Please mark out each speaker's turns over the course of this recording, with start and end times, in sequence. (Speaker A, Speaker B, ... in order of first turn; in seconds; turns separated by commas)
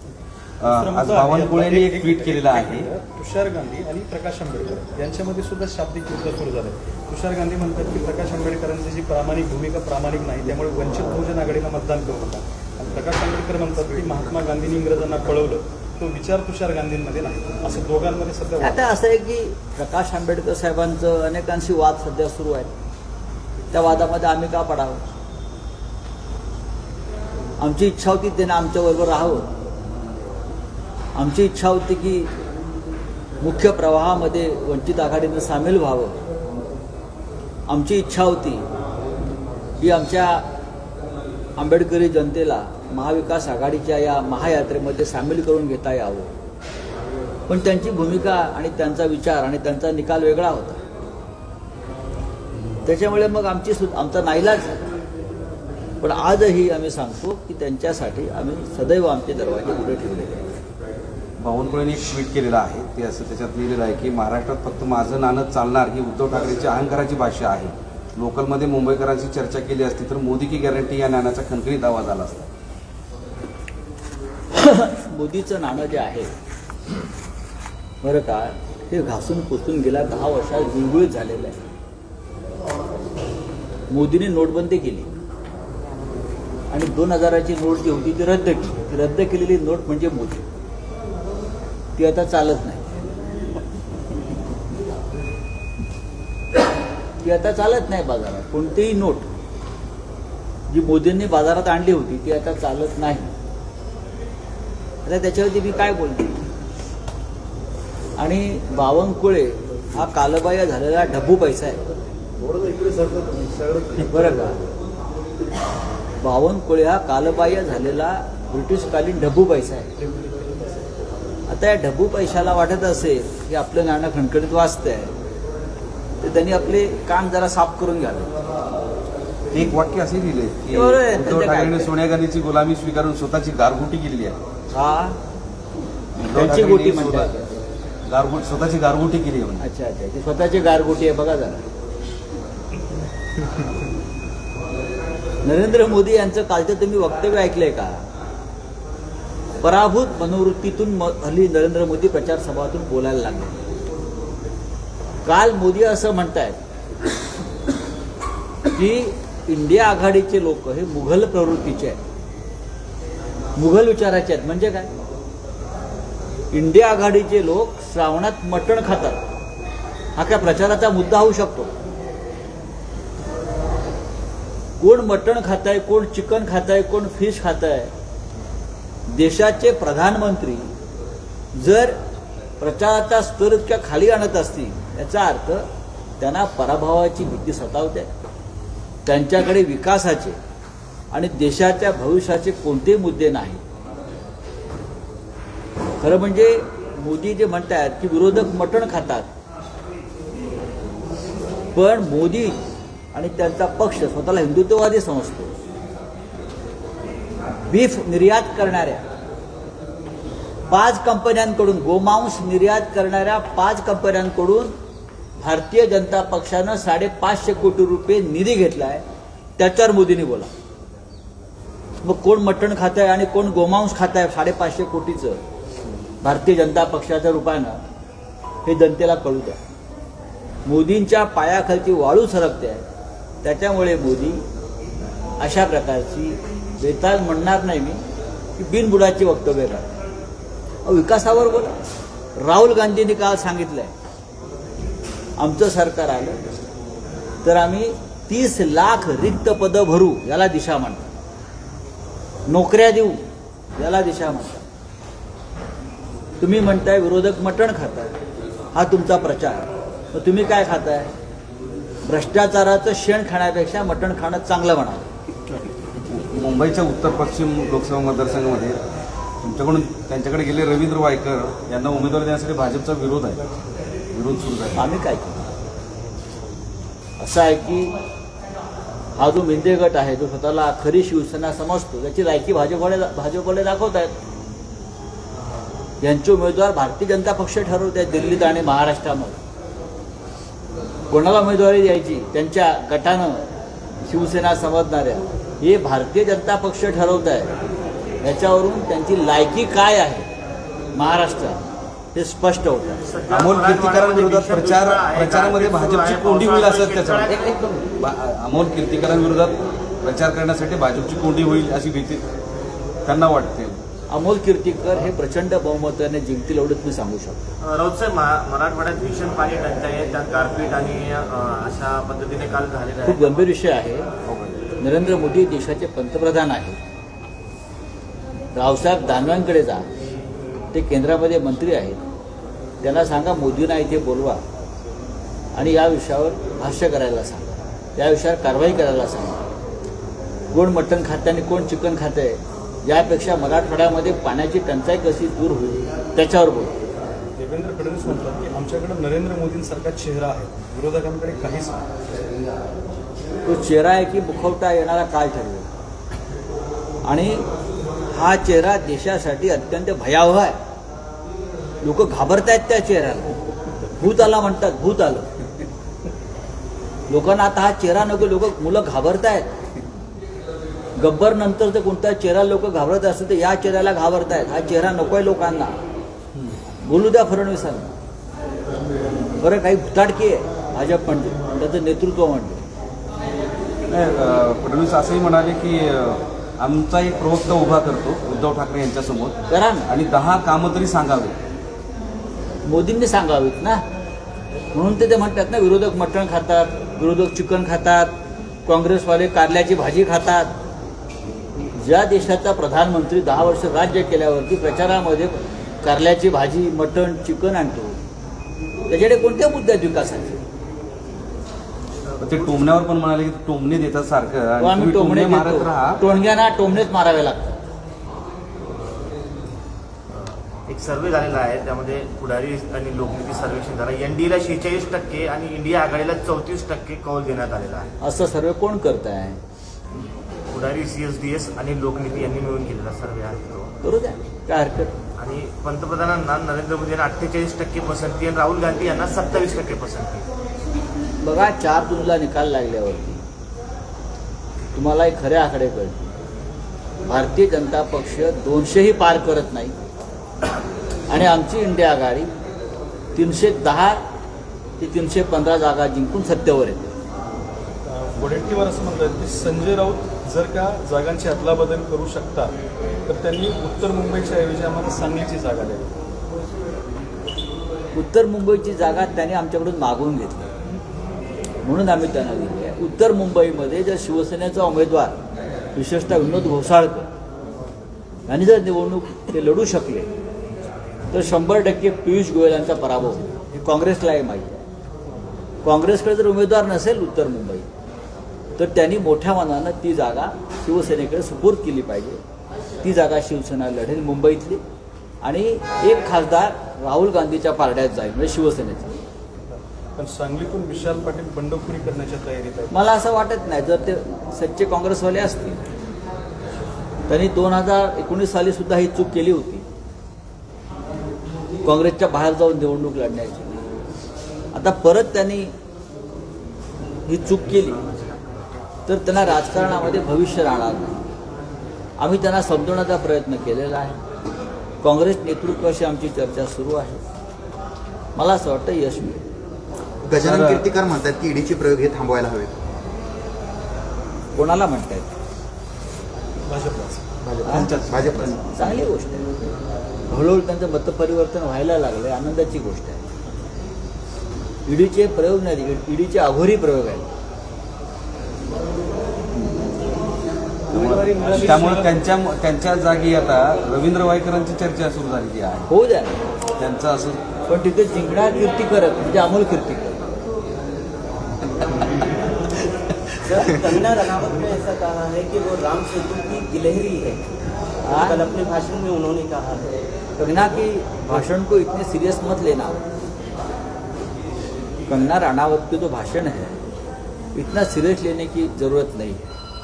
Speaker A: 0.6-2.9, Speaker B: 0.6-18.9, Speaker C: 18.6-22.7, Speaker C: 23.7-25.0, Speaker C: 27.6-29.5, Speaker C: 31.1-32.3, Speaker C: 33.4-36.2, Speaker C: 37.7-38.6, Speaker C: 39.8-40.5, Speaker C: 41.6-46.3, Speaker C: 47.5-50.8, Speaker C: 52.8-54.8, Speaker C: 56.0-60.5, Speaker A: 61.4-72.5, Speaker C: 74.5-76.3, Speaker C: 78.0-81.6, Speaker C: 83.9-85.1, Speaker C: 86.7-90.5, Speaker C: 92.0-92.9, Speaker C: 97.2-99.3, Speaker C: 100.7-103.3, Speaker C: 105.0-106.4, Speaker C: 108.2-111.8, Speaker B: 112.6-113.6, Speaker C: 114.0-114.6, Speaker C: 116.2-119.9, Speaker B: 120.0-120.8, Speaker C: 121.5-125.1, Speaker C: 126.2-128.4, Speaker A: 129.5-134.4, Speaker C: 130.7-131.9, Speaker C: 134.7-135.2, Speaker A: 136.2-137.3, Speaker C: 136.3-137.5, Speaker A: 138.1-139.6, Speaker C: 139.6-141.6, Speaker C: 145.4-148.0, Speaker C: 149.6-153.6, Speaker C: 155.2-156.6, Speaker C: 158.7-162.0, Speaker C: 163.6-164.9, Speaker C: 166.5-169.2, Speaker C: 170.2-171.7, Speaker C: 174.8-177.9, Speaker C: 179.1-180.7, Speaker C: 181.5-182.0, Speaker C: 182.6-185.7, Speaker C: 186.2-188.1, Speaker C: 189.1-190.4, Speaker C: 191.1-193.6, Speaker C: 196.0-199.3, Speaker C: 201.7-202.6, Speaker C: 203.1-205.5, Speaker C: 207.7-209.0, Speaker C: 210.7-214.7, Speaker C: 215.4-219.0, Speaker C: 219.6-220.5, Speaker C: 222.0-225.4, Speaker C: 226.2-227.8, Speaker C: 228.6-229.6, Speaker C: 230.7-232.8, Speaker C: 233.4-234.4, Speaker C: 235.4-238.0, Speaker C: 238.6-239.9, Speaker C: 240.8-241.8, Speaker C: 242.4-243.9, Speaker C: 245.4-246.4, Speaker C: 247.4-251.1, Speaker C: 252.5-253.2, Speaker C: 253.8-254.6, Speaker C: 256.4-258.1, Speaker C: 258.7-261.1, Speaker C: 262.1-265.1, Speaker A: 266.0-268.8, Speaker A: 269.4-273.4, Speaker A: 274.1-274.9, Speaker C: 274.8-275.4, Speaker C: 277.2-277.9, Speaker C: 279.1-284.1, Speaker C: 286.0-289.4, Speaker C: 291.1-293.4, Speaker C: 294.0-297.5, Speaker C: 298.2-300.3, Speaker C: 300.9-303.0, Speaker D: 303.0-307.5, Speaker A: 303.3-312.2, Speaker A: 313.0-313.8, Speaker C: 314.1-317.5, Speaker D: 317.6-323.4, Speaker C: 323.0-324.1, Speaker A: 324.2-324.6, Speaker C: 324.8-326.8, Speaker C: 328.5-329.9, Speaker C: 330.7-332.0, Speaker C: 332.8-334.4, Speaker C: 335.5-339.4, Speaker C: 340.5-346.8, Speaker B: 347.4-351.9, Speaker C: 353.4-355.7, Speaker C: 357.0-357.5, Speaker C: 358.1-360.6, Speaker C: 361.8-363.3, Speaker C: 364.0-365.3, Speaker C: 367.1-369.5, Speaker C: 371.0-375.8, Speaker C: 376.8-377.9, Speaker C: 379.4-382.6, Speaker A: 383.9-389.4, Speaker C: 389.5-389.9, Speaker A: 389.9-391.4, Speaker C: 392.6-393.8, Speaker C: 394.7-398.1, Speaker C: 398.6-400.5, Speaker C: 401.7-408.0, Speaker C: 408.9-410.4, Speaker A: 412.2-416.0, Speaker C: 414.6-417.6, Speaker D: 420.7-427.9, Speaker C: 428.0-429.4, Speaker D: 430.5-433.7, Speaker C: 433.8-434.9, Speaker D: 435.2-440.3, Speaker C: 441.2-443.2, Speaker C: 444.7-446.1, Speaker C: 447.1-449.7, Speaker C: 451.1-452.3, Speaker C: 453.1-454.0, Speaker C: 454.8-456.9, Speaker B: 457.8-462.5, Speaker B: 463.1-465.9, Speaker C: 467.9-470.5, Speaker C: 471.6-475.1, Speaker C: 475.7-477.1, Speaker C: 478.3-480.1, Speaker C: 481.1-484.6, Speaker C: 485.6-487.6, Speaker C: 488.6-492.2, Speaker C: 492.8-494.6, Speaker C: 495.2-498.9, Speaker B: 499.4-502.8, Speaker C: 502.7-505.6, Speaker C: 507.1-509.6, Speaker C: 511.6-513.6, Speaker C: 514.5-515.5, Speaker C: 517.0-517.8, Speaker C: 518.9-521.1, Speaker C: 522.0-524.0, Speaker C: 524.8-527.0, Speaker C: 528.1-529.2, Speaker E: 530.0-532.6, Speaker A: 530.1-530.6, Speaker C: 534.3-535.1, Speaker B: 536.4-537.2, Speaker E: 537.2-538.4, Speaker A: 537.4-538.4, Speaker C: 537.5-537.7, Speaker C: 538.4-539.3, Speaker C: 540.1-543.0, Speaker C: 544.6-547.1, Speaker B: 550.7-551.9, Speaker A: 550.7-555.7, Speaker C: 555.7-556.2, Speaker A: 556.6-557.2, Speaker C: 557.5-560.0, Speaker F: 563.2-567.2, Speaker C: 567.8-568.2, Speaker F: 568.0-569.8, Speaker C: 570.2-572.8, Speaker C: 574.9-576.6, Speaker C: 577.3-579.2